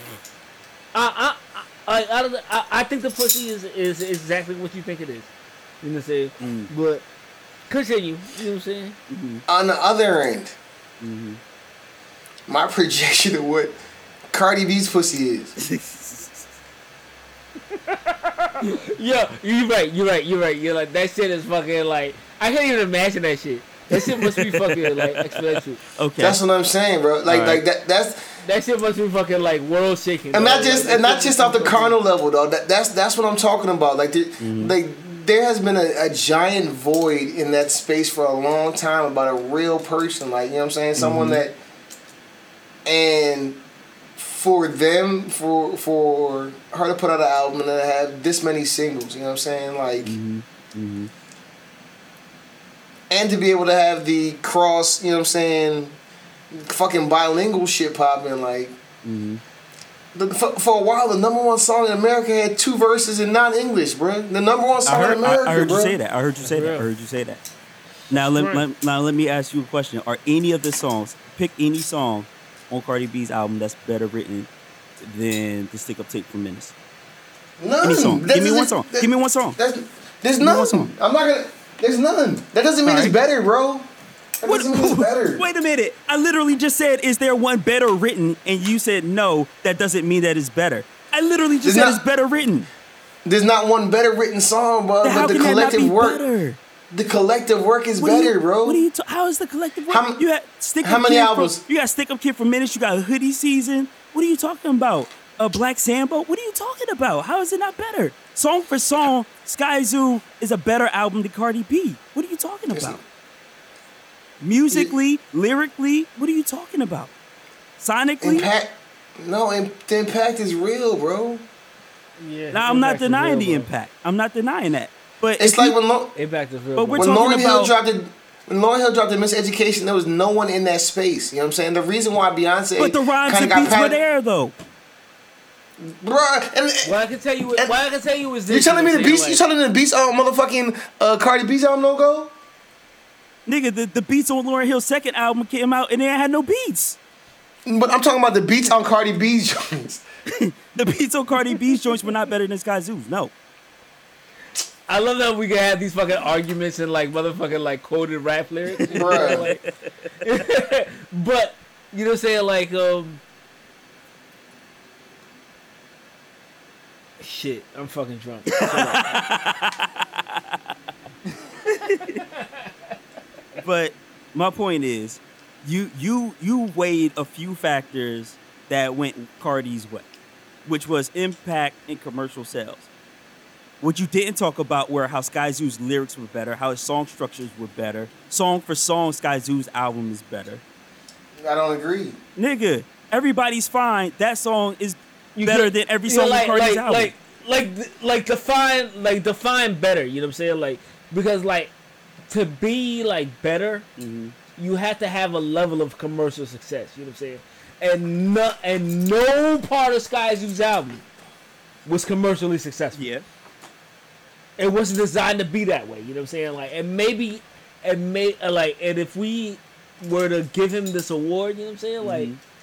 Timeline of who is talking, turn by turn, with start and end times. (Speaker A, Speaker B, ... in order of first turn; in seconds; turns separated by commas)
Speaker A: 0.9-5.3, Speaker A: 5.8-7.0, Speaker B: 6.4-6.7, Speaker A: 7.7-9.0, Speaker B: 9.1-9.4, Speaker C: 9.5-10.6, Speaker B: 11.0-11.4, Speaker C: 12.5-13.8, Speaker C: 14.3-15.6, Speaker B: 15.6-16.5, Speaker A: 18.6-25.8, Speaker B: 23.9-26.4, Speaker C: 26.2-28.3, Speaker B: 27.3-27.6, Speaker A: 28.4-31.9, Speaker C: 30.3-41.6, Speaker B: 34.4-34.7, Speaker B: 41.0-41.4, Speaker C: 42.9-43.6, Speaker C: 44.2-50.1, Speaker B: 50.0-51.1, Speaker C: 53.1-56.0, Speaker C: 56.5-58.8, Speaker B: 59.0-59.4, Speaker C: 60.1-66.0, Speaker B: 64.9-67.4, Speaker A: 66.4-66.9, Speaker B: 68.1-74.5, Speaker A: 68.3-68.6, Speaker B: 75.0-76.7, Speaker C: 77.6-85.5, Speaker B: 77.8-79.6, Speaker B: 80.4-80.9, Speaker B: 82.8-83.1, Speaker B: 84.4-92.7, Speaker C: 91.6-92.0, Speaker C: 93.2-96.2, Speaker B: 95.0-96.6, Speaker C: 96.9-98.8, Speaker B: 98.0-113.0, Speaker C: 99.9-100.2, Speaker C: 100.8-101.6, Speaker C: 112.7-113.0, Speaker B: 114.4-117.1, Speaker B: 117.8-118.5, Speaker C: 118.2-121.5, Speaker A: 122.2-123.7, Speaker B: 122.5-125.8, Speaker C: 125.4-126.1, Speaker A: 126.2-127.1, Speaker B: 126.8-127.7, Speaker C: 127.0-134.0, Speaker B: 132.8-134.6, Speaker C: 135.8-136.9, Speaker A: 136.8-139.4, Speaker C: 138.5-142.3, Speaker B: 143.5-147.0, Speaker C: 147.7-150.0, Speaker B: 150.3-153.3, Speaker A: 154.9-159.6, Speaker C: 158.9-159.5, Speaker B: 159.0-159.5, Speaker A: 160.2-163.2, Speaker A: 167.2-169.1, Speaker B: 168.6-169.9, Speaker B: 171.7-172.2, Speaker B: 173.6-180.1, Speaker B: 180.7-182.9, Speaker B: 183.8-190.6, Speaker C: 191.4-192.2, Speaker B: 192.4-197.1, Speaker A: 195.4-201.7, Speaker A: 202.3-203.9, Speaker B: 204.0-204.4, Speaker A: 204.6-211.0, Speaker A: 211.8-213.0, Speaker B: 212.9-213.2, Speaker A: 214.6-222.3, Speaker B: 222.0-222.4